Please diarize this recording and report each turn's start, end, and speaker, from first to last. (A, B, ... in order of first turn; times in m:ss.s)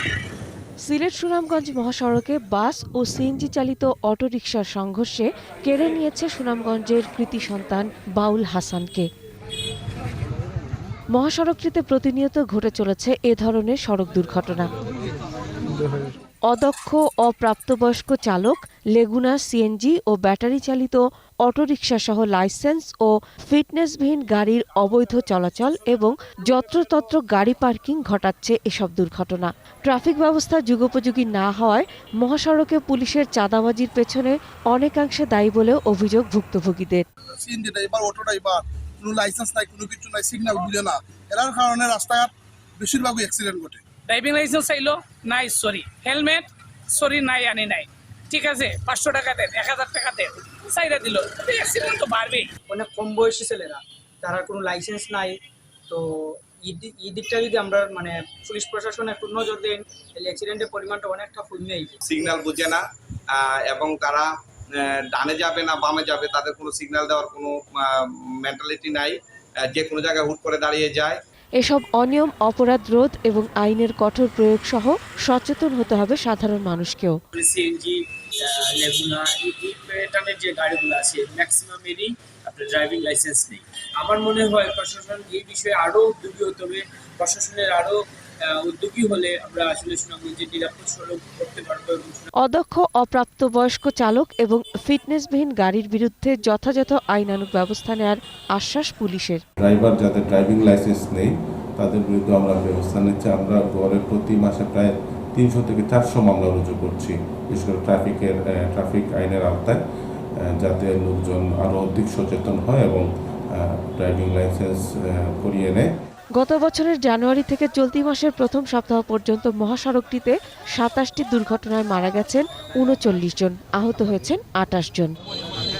0:00.8-0:09.1 A
0:11.1-0:14.7 A
0:16.5-0:37.0 A
0:37.4-0:43.8 B
0:44.1-0:52.5 C
0:52.7-1:02.0 D
1:02.1-1:11.2 E
1:11.6-1:17.2 A
1:17.3-1:32.3 F
1:32.4-1:39.4 A
1:39.6-1:49.8 G
1:50.4-1:55.9 G
1:56.4-2:05.1 A